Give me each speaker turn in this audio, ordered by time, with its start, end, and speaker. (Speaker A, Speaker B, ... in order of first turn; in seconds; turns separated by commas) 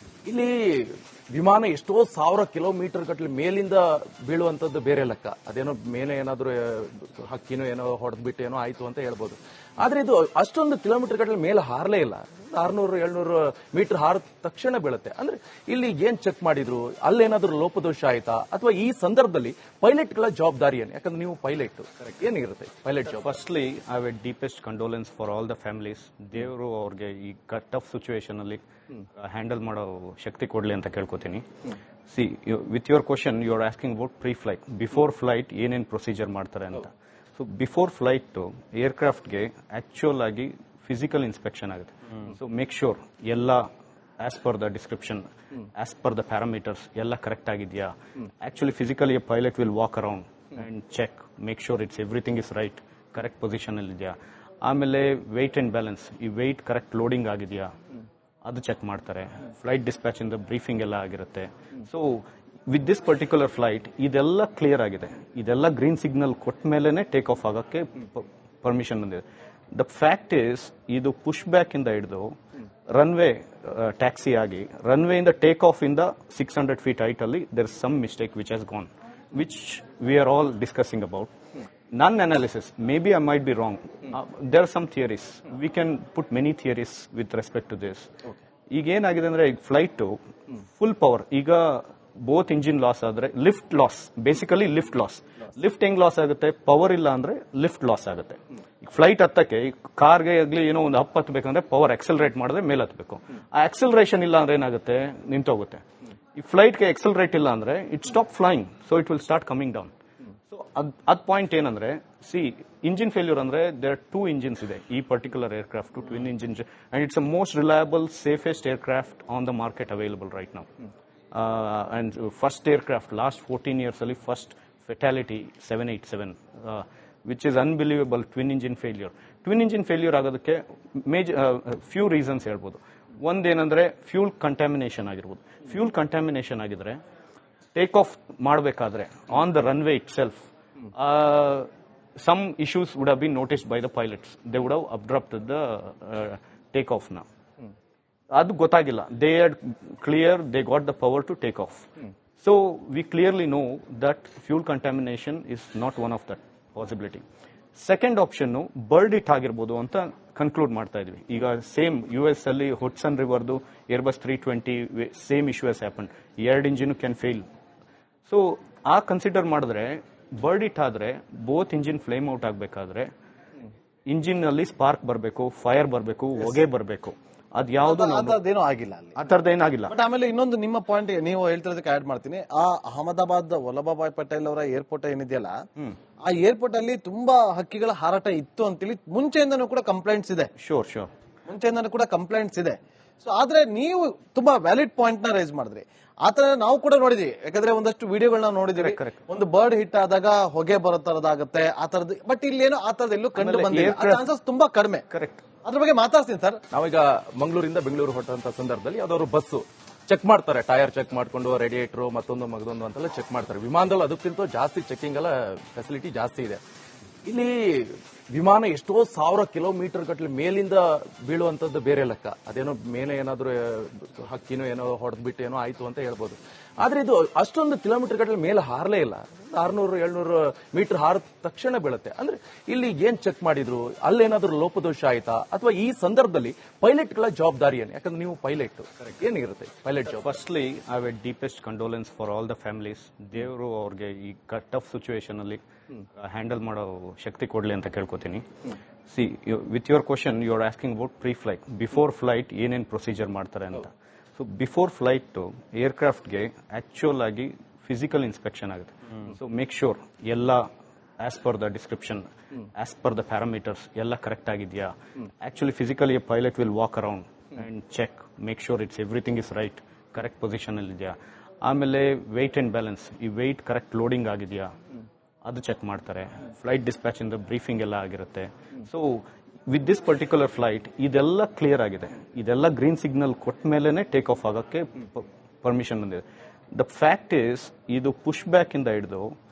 Speaker A: 0.3-23.3, Speaker B: 23.1-28.6, Speaker B: 29.2-31.4, Speaker B: 32.1-43.6, Speaker B: 44.2-57.7, Speaker B: 58.5-69.2, Speaker B: 69.7-72.3, Speaker B: 72.9-81.3, Speaker B: 81.9-88.1, Speaker B: 88.7-90.2, Speaker B: 90.7-105.8, Speaker B: 106.4-109.9, Speaker B: 110.5-120.7, Speaker B: 121.3-137.0, Speaker B: 137.8-140.4, Speaker B: 141.0-141.7, Speaker B: 142.2-147.2, Speaker B: 148.4-151.8, Speaker B: 152.4-157.2, Speaker B: 157.8-167.4, Speaker B: 168.3-173.1, Speaker B: 174.1-178.4, Speaker C: 177.8-179.2, Speaker B: 179.2-179.9, Speaker C: 179.9-185.6, Speaker C: 186.3-190.5, Speaker B: 190.6-191.1, Speaker C: 191.5-205.0, Speaker B: 198.8-199.2, Speaker B: 203.4-204.3, Speaker B: 205.1-205.4, Speaker C: 205.6-206.6, Speaker A: 206.7-216.6, Speaker A: 217.3-240.3, Speaker B: 240.1-245.6, Speaker B: 246.2-248.4, Speaker B: 249.1-260.6, Speaker B: 261.2-274.7, Speaker B: 275.4-289.4